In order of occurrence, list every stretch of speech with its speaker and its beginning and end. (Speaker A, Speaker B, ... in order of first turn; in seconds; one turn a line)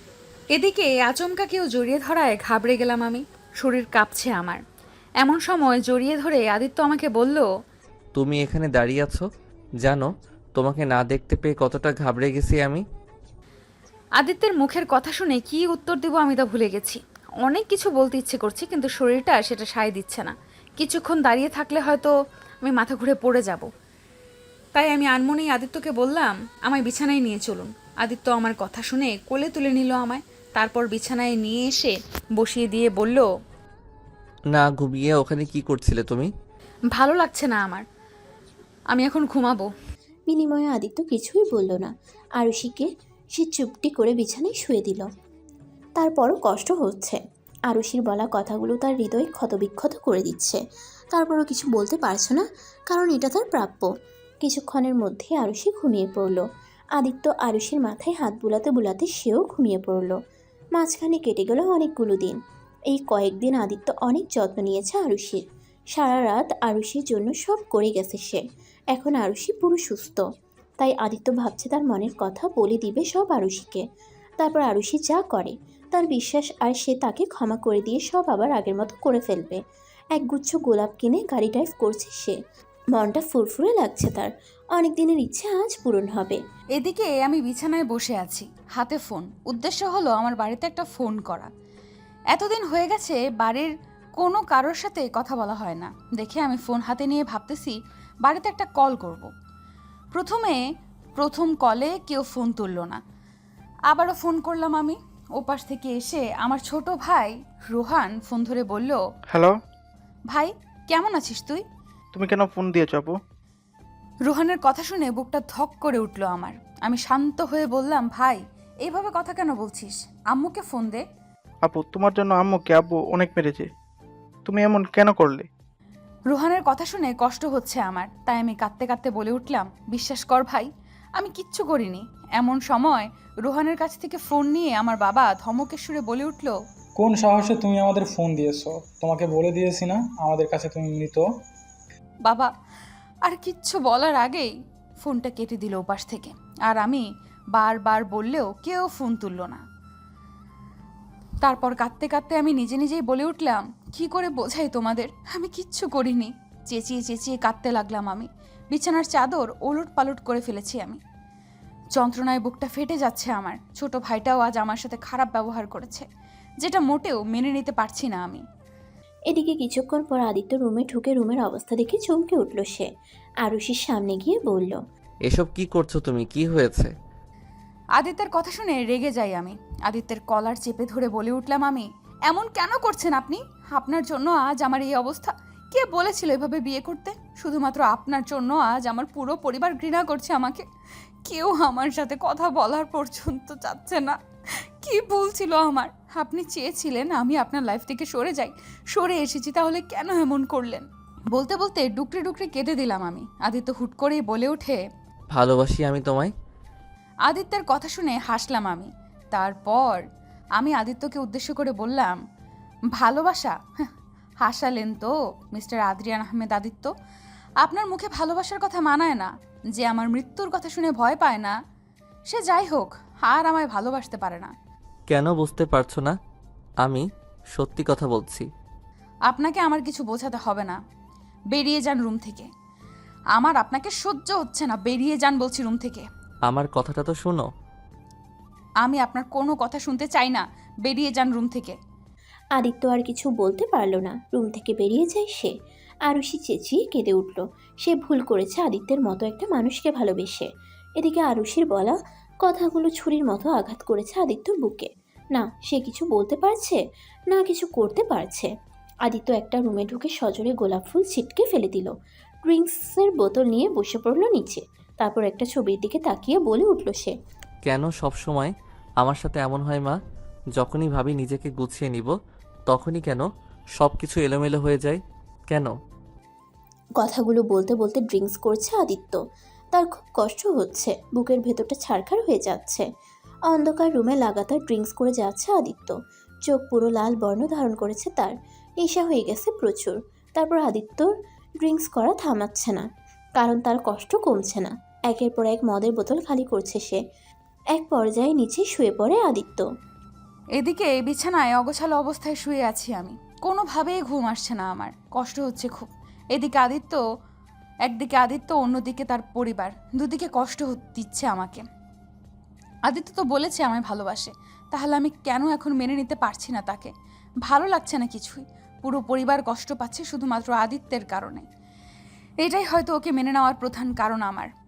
Speaker A: 0.5-4.6
Speaker A: 5.2-7.5
Speaker B: 8.1-9.2
Speaker B: 9.8-12.8
Speaker A: 14.2-23.7
Speaker A: 24.7-33.3
Speaker B: 34.5-36.3
Speaker A: 36.9-37.8
Speaker A: 38.9-39.7
Speaker C: 40.3-45.0
Speaker C: 46.0-47.2
Speaker C: 47.7-50.6
Speaker C: 51.1-53.9
Speaker C: 54.4-56.4
Speaker C: 57.0-60.1
Speaker C: 60.8-62.4
Speaker C: 62.9-65.4
Speaker C: 65.9-68.4
Speaker C: 68.9-70.2
Speaker C: 70.8-73.8
Speaker C: 74.4-79.6
Speaker C: 80.1-82.3
Speaker C: 82.9-86.4
Speaker A: 86.8-91.5
Speaker A: 92.3-99.3
Speaker A: 100.1-100.6
Speaker A: 101.2-103.0
Speaker A: 103.9-109.0
Speaker D: 109.3-109.6
Speaker A: 110.3-111.6
Speaker D: 112.1-113.2
Speaker A: 114.2-121.0
Speaker D: 121.6-123.7
Speaker D: 124.5-125.5
Speaker A: 126.3-136.5
Speaker E: 137.0-141.3
Speaker A: 142.2-142.5
Speaker A: 143.2-149.6
Speaker A: 151.4-161.0
Speaker A: 161.9-166.1
Speaker A: 166.6-168.4
Speaker C: 169.3-172.9
Speaker C: 173.4-174.8
Speaker B: 175.3-176.9
Speaker A: 178.0-190.6
Speaker A: 191.2-194.1
Speaker A: 194.8-204.8
Speaker B: 205.3-206.3
Speaker A: 207.3-210.0
Speaker A: 210.6-212.2
Speaker A: 212.9-213.5
Speaker A: 214.4-216.9
Speaker A: 217.6-221.6
Speaker A: 222.3-224.5
Speaker B: 225.1-226.1
Speaker B: 226.8-228.4
Speaker A: 229.3-230.8
Speaker A: 231.5-232.5
Speaker A: 233.3-236.0
Speaker B: 236.5-237.4
Speaker A: 238.8-241.8
Speaker C: 242.6-245.5
Speaker C: 246.1-250.4
Speaker C: 251.0-256.8
Speaker C: 257.3-258.5
Speaker C: 259.1-261.9
Speaker C: 262.5-267.1
Speaker B: 267.6-270.0
Speaker B: 270.5-272.1
Speaker B: 272.7-273.2
Speaker B: 273.8-275.7
Speaker C: 277.0-279.2
Speaker C: 279.7-282.9
Speaker C: 283.5-285.9
Speaker C: 286.5-291.1
Speaker C: 291.6-292.8
Speaker C: 293.4-297.0
Speaker C: 297.7-299.6
Speaker A: 300.6-307.0
Speaker A: 307.9-311.6
Speaker A: 312.9-316.9
Speaker A: 317.4-321.4
Speaker A: 322.4-324.5